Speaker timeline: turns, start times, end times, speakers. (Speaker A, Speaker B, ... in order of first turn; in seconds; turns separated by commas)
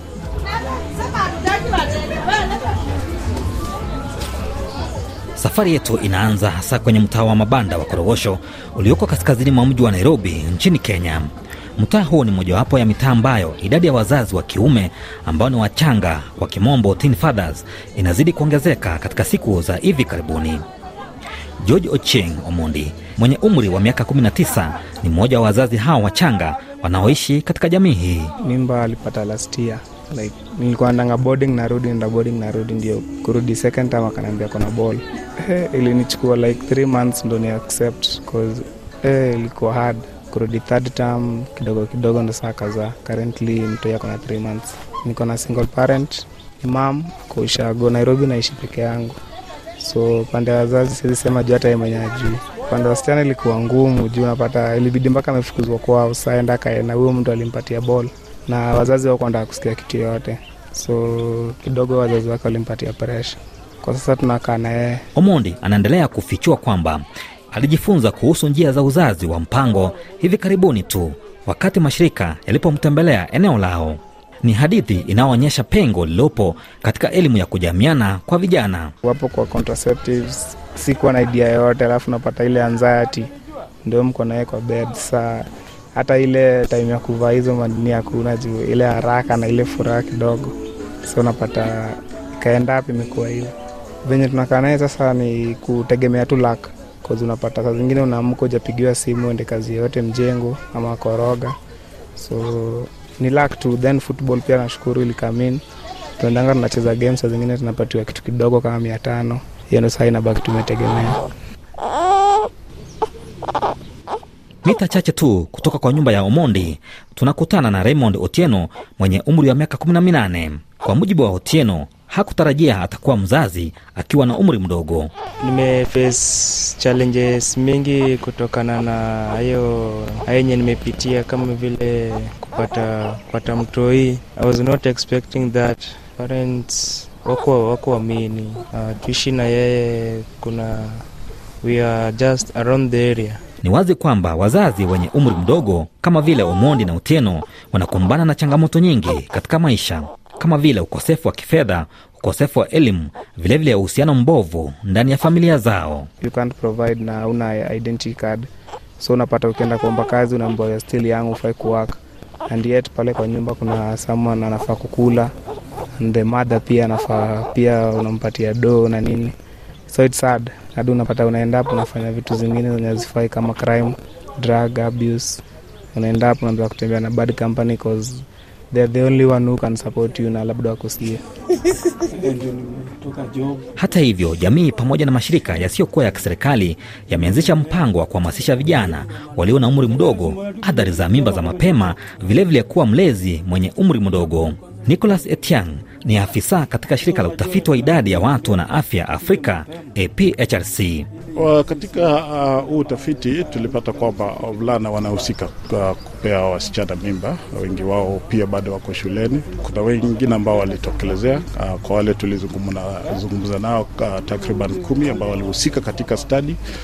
Speaker A: 5.4-20.6, Speaker A: 21.6-28.3, Speaker B: 28.4-49.2, Speaker B: 49.8-65.0, Speaker A: 65.2-78.9, Speaker B: 79.0-83.3, Speaker B: 83.8-90.5, Speaker B: 91.0-93.5, Speaker B: 94.0-101.5, Speaker B: 102.2-105.6, Speaker B: 106.2-111.2, Speaker A: 114.6-125.1, Speaker C: 125.4-141.0, Speaker C: 141.6-143.4, Speaker A: 143.6-156.1, Speaker B: 156.2-158.4, Speaker B: 159.0-165.3, Speaker B: 166.0-169.3, Speaker B: 169.9-175.4, Speaker B: 175.9-181.2, Speaker A: 183.8-201.1, Speaker D: 201.3-216.6